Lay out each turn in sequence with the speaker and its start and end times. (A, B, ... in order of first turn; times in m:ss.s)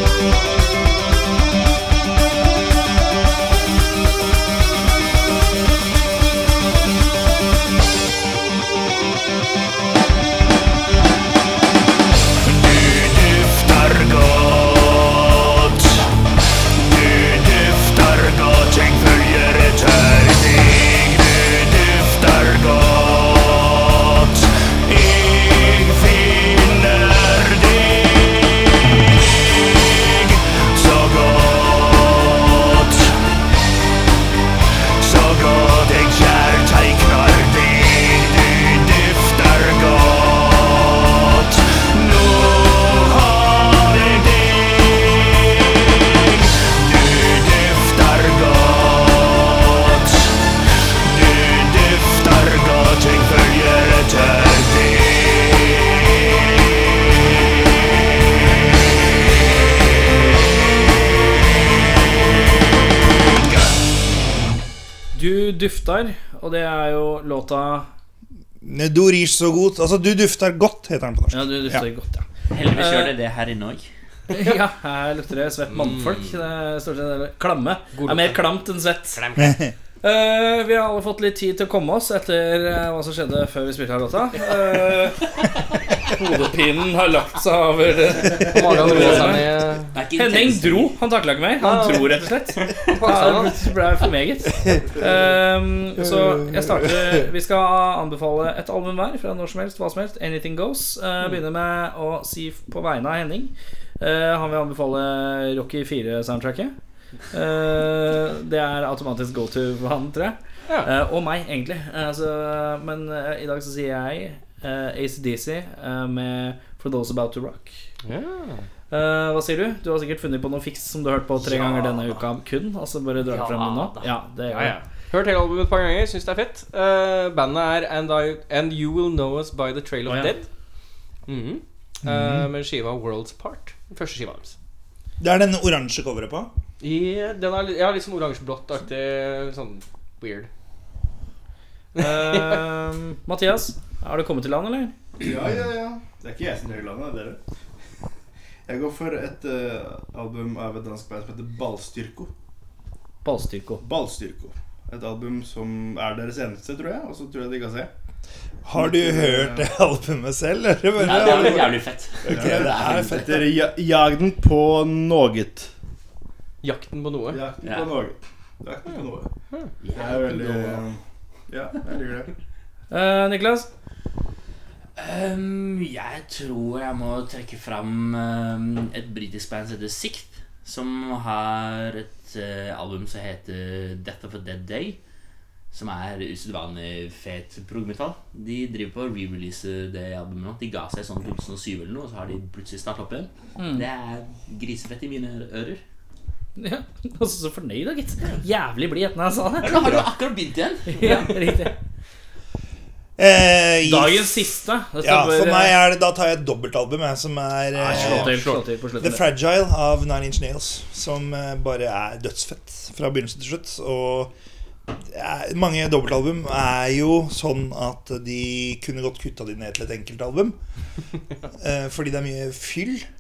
0:12.4-0:16.2 A
0:16.8-0:29.0 A
0:29.5-0:33.2 A
0:35.0-0:50.5 A
0:51.0-0:56.4 A
1:03.3-1:03.8 A
1:05.1-1:07.9 B
1:08.6-1:11.9 C
1:11.3-1:13.1 B
1:12.5-1:13.9 D
1:14.3-1:19.2 B
1:17.9-1:18.4 E
1:19.2-1:19.6 D
1:19.4-1:19.7 C
1:20.0-1:25.3 B
1:26.1-1:29.5 B
1:28.5-1:29.9 E
1:28.9-1:29.4 D
1:29.9-1:31.0 D
1:30.2-1:46.7 B
1:31.6-1:32.2 E
1:32.6-1:33.0 D
1:32.9-1:33.7 E
1:36.1-1:37.2 F
1:47.3-1:57.8 B
1:58.0-1:58.7 E
1:58.9-2:04.8 B
2:01.4-2:02.2 D
2:03.2-2:04.2 D
2:04.5-2:10.5 E
2:10.1-2:10.3 B
2:11.3-2:14.6 E
2:12.0-2:12.5 C
2:15.2-2:16.5 C
2:16.8-2:20.5 E
2:22.0-2:22.6 E
2:22.0-2:24.9 B
2:25.2-2:27.4 F
2:28.7-2:32.3 F
2:33.2-2:33.8 B
2:33.8-2:37.9 F
2:38.6-2:43.2 C
2:38.7-2:39.7 F
2:41.0-2:43.4 D
2:41.2-2:41.5 F
2:42.2-2:45.7 F
2:46.6-2:47.4 E
2:47.3-2:49.3 F
2:47.6-2:47.9 D
2:49.8-2:50.8 D
2:49.9-2:51.0 F
2:51.5-2:52.3 F
2:52.9-2:53.7 B
2:55.0-3:05.0 D
3:05.7-3:15.8 D
3:13.6-3:13.9 B
3:16.6-3:20.0 B
3:19.6-3:21.6 D
3:20.9-3:21.7 B
3:23.2-3:28.5 C
3:23.8-3:25.8 B
3:27.8-3:28.6 E
3:27.9-3:29.3 B
3:29.0-3:34.3 C
3:35.1-3:40.6 C
3:41.6-3:43.0 C